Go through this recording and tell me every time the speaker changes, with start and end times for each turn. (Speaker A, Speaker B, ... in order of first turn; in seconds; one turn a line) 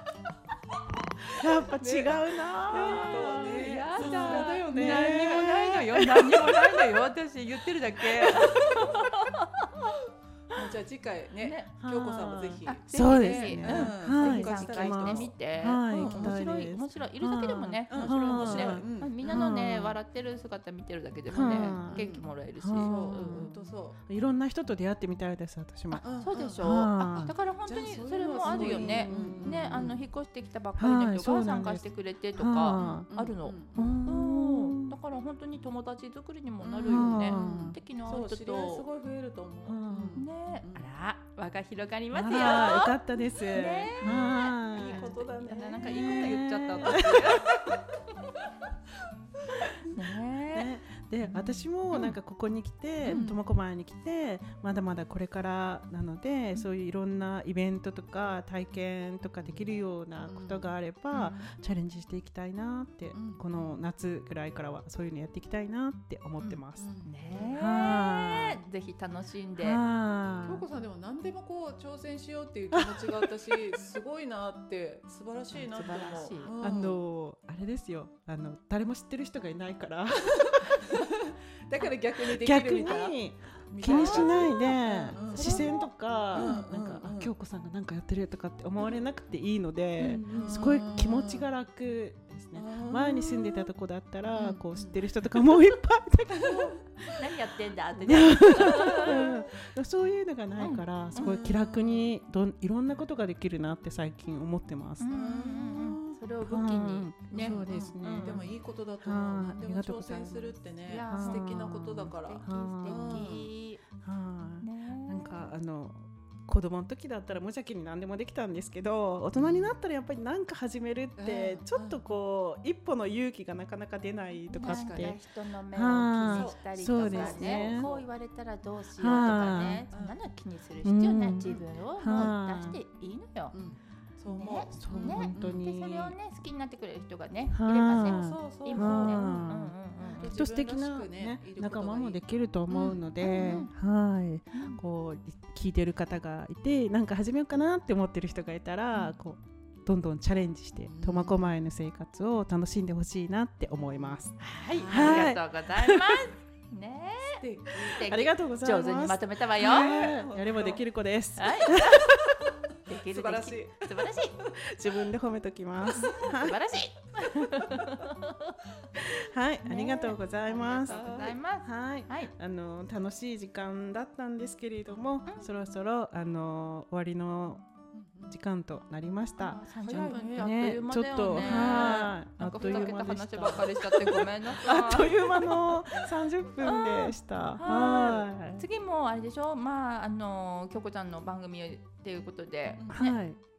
Speaker A: 1.3-6.6
Speaker B: 1.4-5.5
Speaker C: 2.7-9.7
Speaker B: 10.5-15.4
Speaker C: 11.4-11.8
Speaker A: 11.8-20.0
Speaker C: 12.6-23.6
Speaker B: 15.9-16.4
Speaker B: 17.9-19.4
Speaker A: 21.3-23.5
Speaker B: 21.3-24.0
Speaker A: 24.1-27.3
Speaker C: 25.9-38.9
Speaker B: 26.0-30.0
Speaker A: 28.4-30.0
Speaker A: 30.8-33.1
Speaker B: 32.7-33.9
Speaker A: 33.7-34.9
Speaker B: 36.6-40.9
Speaker A: 36.9-37.8
Speaker A: 39.6-40.2
Speaker C: 40.1-47.8
Speaker A: 42.1-45.2
Speaker B: 44.0-47.0
Speaker A: 45.8-47.4
Speaker C: 49.9-50.8
Speaker A: 50.5-66.9
Speaker B: 51.3-51.6
Speaker B: 53.0-53.4
Speaker B: 59.4-61.5
Speaker B: 63.1-63.8
Speaker B: 66.4-67.5
Speaker C: 67.0-69.8
Speaker A: 67.5-68.6
Speaker A: 69.6-70.6
Speaker B: 70.4-77.0
Speaker A: 72.7-73.3
Speaker C: 75.5-76.5
Speaker A: 76.6-80.7
Speaker B: 80.4-83.2
Speaker A: 82.3-96.7
Speaker B: 83.7-85.7
Speaker C: 83.8-86.6
Speaker B: 86.3-87.3
Speaker B: 90.0-91.5
Speaker C: 90.1-90.5
Speaker B: 92.5-93.7
Speaker B: 94.3-95.0
Speaker B: 96.3-96.8
Speaker C: 96.5-99.5
Speaker A: 98.0-105.1
Speaker C: 100.6-101.4
Speaker B: 101.1-102.1
Speaker C: 105.0-107.9
Speaker B: 105.1-106.2
Speaker A: 106.4-108.5
Speaker B: 107.3-113.5
Speaker A: 109.0-113.3
Speaker C: 110.8-113.8
Speaker A: 114.0-127.9
Speaker C: 114.6-115.5
Speaker B: 119.3-119.8
Speaker B: 121.2-122.0
Speaker C: 124.5-133.6
Speaker B: 124.6-125.2
Speaker B: 126.2-128.1
Speaker A: 129.0-129.8
Speaker B: 129.6-130.2
Speaker A: 130.8-132.8
Speaker B: 133.5-135.7
Speaker C: 134.3-140.4
Speaker A: 134.7-136.1
Speaker A: 137.5-139.7
Speaker B: 138.0-139.3
Speaker B: 140.0-143.7
Speaker A: 140.3-156.3
Speaker C: 143.2-143.7
Speaker C: 144.5-144.8
Speaker B: 150.8-151.5
Speaker C: 154.4-160.0
Speaker B: 154.7-155.4
Speaker B: 157.2-158.0
Speaker A: 157.8-162.4
Speaker B: 159.6-160.8
Speaker C: 161.4-161.9
Speaker C: 162.8-164.4
Speaker B: 162.9-164.5
Speaker A: 164.6-166.6
Speaker C: 165.9-168.5
Speaker A: 169.0-177.6
Speaker C: 169.6-172.3
Speaker B: 170.7-171.4
Speaker B: 177.9-178.3
Speaker A: 178.3-188.6
Speaker C: 179.4-185.8
Speaker B: 179.8-180.5
Speaker B: 181.2-183.0
Speaker C: 186.6-193.2
Speaker A: 192.9-193.4